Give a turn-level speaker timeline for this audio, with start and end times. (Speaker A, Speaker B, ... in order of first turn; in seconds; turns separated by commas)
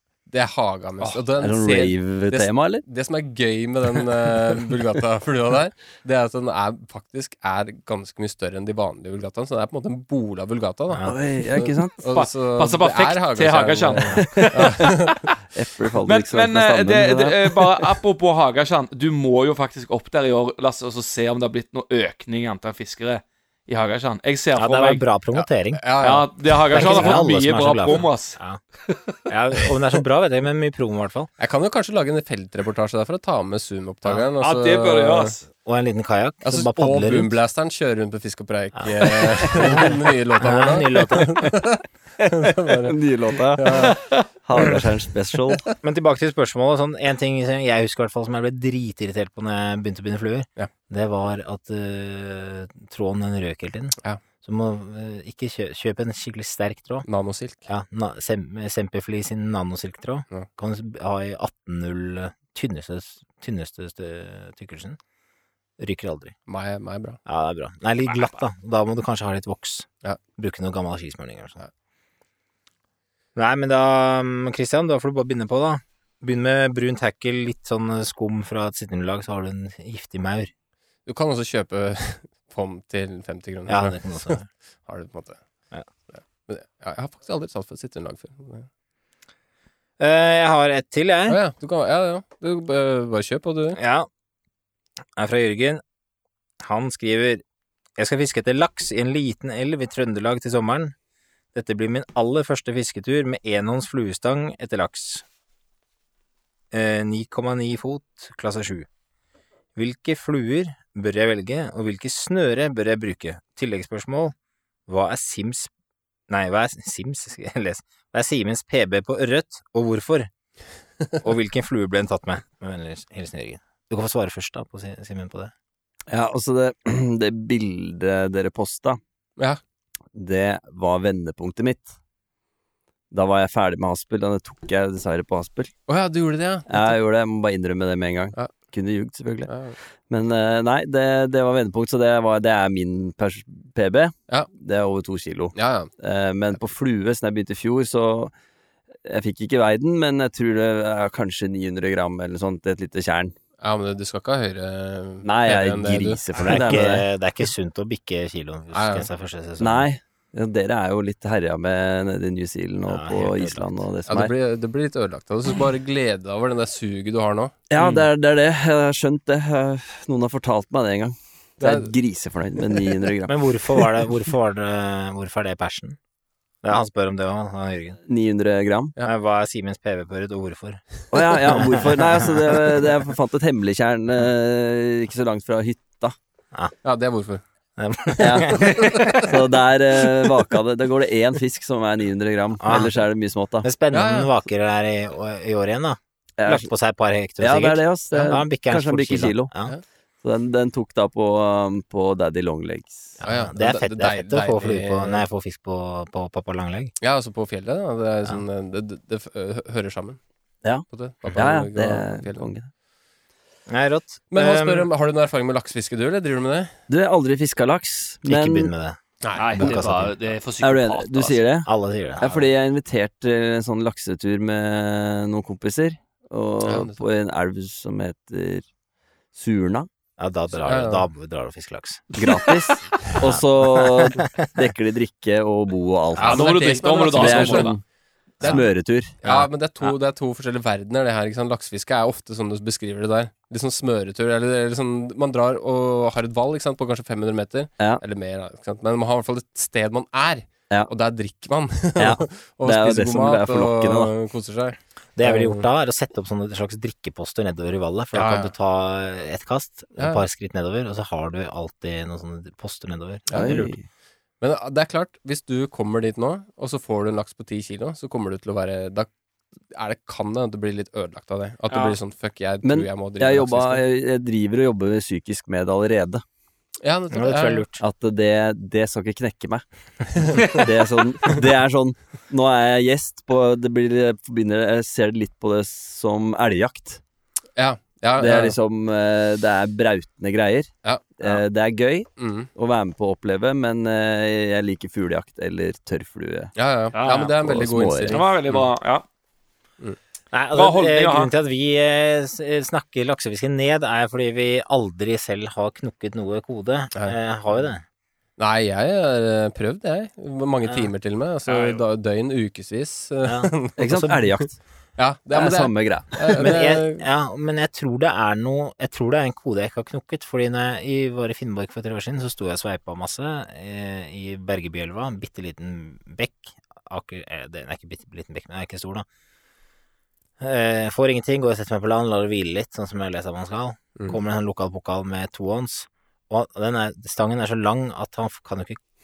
Speaker A: 0.3-15.3, Speaker B: 1.0-2.8, Speaker C: 10.9-11.2, Speaker B: 11.0-12.0, Speaker D: 12.1-14.9, Speaker B: 14.2-14.8, Speaker B: 15.5-18.0, Speaker D: 16.1-25.0, Speaker C: 24.6-25.8, Speaker A: 25.8-27.2, Speaker D: 26.0-29.1, Speaker C: 26.7-28.6, Speaker C: 29.3-31.3, Speaker A: 31.4-35.4, Speaker D: 34.4-35.4, Speaker C: 35.5-37.4, Speaker A: 36.4-43.0, Speaker C: 38.8-41.7, Speaker B: 42.7-45.6, Speaker A: 43.5-44.0, Speaker C: 45.8-57.1, Speaker A: 57.1-57.7, Speaker C: 57.7-65.0, Speaker C: 65.8-66.3, Speaker A: 66.5-67.2, Speaker C: 67.3-71.7, Speaker C: 73.4-80.5, Speaker A: 81.1-85.4, Speaker C: 83.7-84.5, Speaker A: 86.1-88.7, Speaker C: 90.0-91.4, Speaker A: 91.3-93.8, Speaker C: 93.8-94.1, Speaker C: 95.2-95.8, Speaker C: 96.6-97.4, Speaker C: 98.0-100.9, Speaker C: 101.5-105.2, Speaker C: 106.7-108.9, Speaker C: 109.8-114.3, Speaker C: 114.9-115.7, Speaker C: 116.3-120.3, Speaker C: 121.2-125.5, Speaker B: 126.1-129.0, Speaker B: 130.2-131.9, Speaker B: 133.1-135.7, Speaker A: 135.9-137.0, Speaker B: 136.7-139.5, Speaker A: 139.5-139.8, Speaker B: 140.1-148.3, Speaker A: 145.6-145.9, Speaker B: 149.0-153.4, Speaker A: 153.6-156.2, Speaker B: 155.2-157.1, Speaker C: 156.4-159.9, Speaker A: 158.7-159.1, Speaker B: 159.6-164.3, Speaker C: 162.9-163.8, Speaker A: 164.1-168.0, Speaker B: 167.7-173.3, Speaker A: 171.6-171.9, Speaker C: 173.3-176.0, Speaker C: 176.6-178.0, Speaker B: 178.1-178.9, Speaker C: 179.0-182.6, Speaker B: 181.1-186.2, Speaker A: 186.8-187.4, Speaker C: 187.8-189.2, Speaker B: 188.2-193.7, Speaker C: 192.6-193.0, Speaker C: 193.6-199.7, Speaker A: 193.9-194.3, Speaker B: 196.4-196.7, Speaker B: 197.4-199.5, Speaker B: 200.2-203.2, Speaker C: 203.2-206.9, Speaker A: 203.2-205.2, Speaker A: 207.0-210.2, Speaker B: 210.6-212.7, Speaker A: 210.9-212.5, Speaker C: 213.7-214.9, Speaker A: 214.3-216.7, Speaker B: 216.9-218.7, Speaker C: 218.2-219.0, Speaker A: 219.2-219.6, Speaker D: 219.3-221.4, Speaker C: 219.6-220.3, Speaker B: 220.6-228.7, Speaker C: 221.7-222.5, Speaker A: 226.6-227.0, Speaker B: 229.3-229.9, Speaker C: 230.2-232.1, Speaker A: 230.6-231.1, Speaker B: 232.2-236.5, Speaker C: 233.2-234.3, Speaker A: 236.2-237.7, Speaker D: 236.2-237.8, Speaker B: 237.1-237.8, Speaker C: 238.4-238.7, Speaker B: 238.4-239.2, Speaker A: 239.2-255.7, Speaker B: 252.0-254.1, Speaker C: 255.2-263.8, Speaker A: 258.1-258.5, Speaker A: 260.0-260.2, Speaker A: 263.3-263.7, Speaker B: 263.3-263.9, Speaker A: 264.4-269.1, Speaker A: 269.7-273.8, Speaker D: 271.7-272.0, Speaker B: 272.6-276.2, Speaker A: 276.8-277.6, Speaker C: 277.1-277.8, Speaker B: 277.8-287.0, Speaker A: 280.2-280.6, Speaker A: 287.6-288.6, Speaker B: 288.2-296.5, Speaker A: 290.8-291.4, Speaker A: 292.2-292.5, Speaker A: 296.6-298.6, Speaker D: 296.9-297.3, Speaker B: 297.3-298.2, Speaker D: 298.1-299.0, Speaker C: 300.3-307.8, Speaker D: 300.5-301.3, Speaker A: 308.4-314.4, Speaker D: 311.5-311.8, Speaker C: 313.2-313.5, Speaker B: 313.8-314.6, Speaker A: 315.0-317.1, Speaker B: 315.3-316.4, Speaker C: 316.4-329.1, Speaker C: 330.4-338.8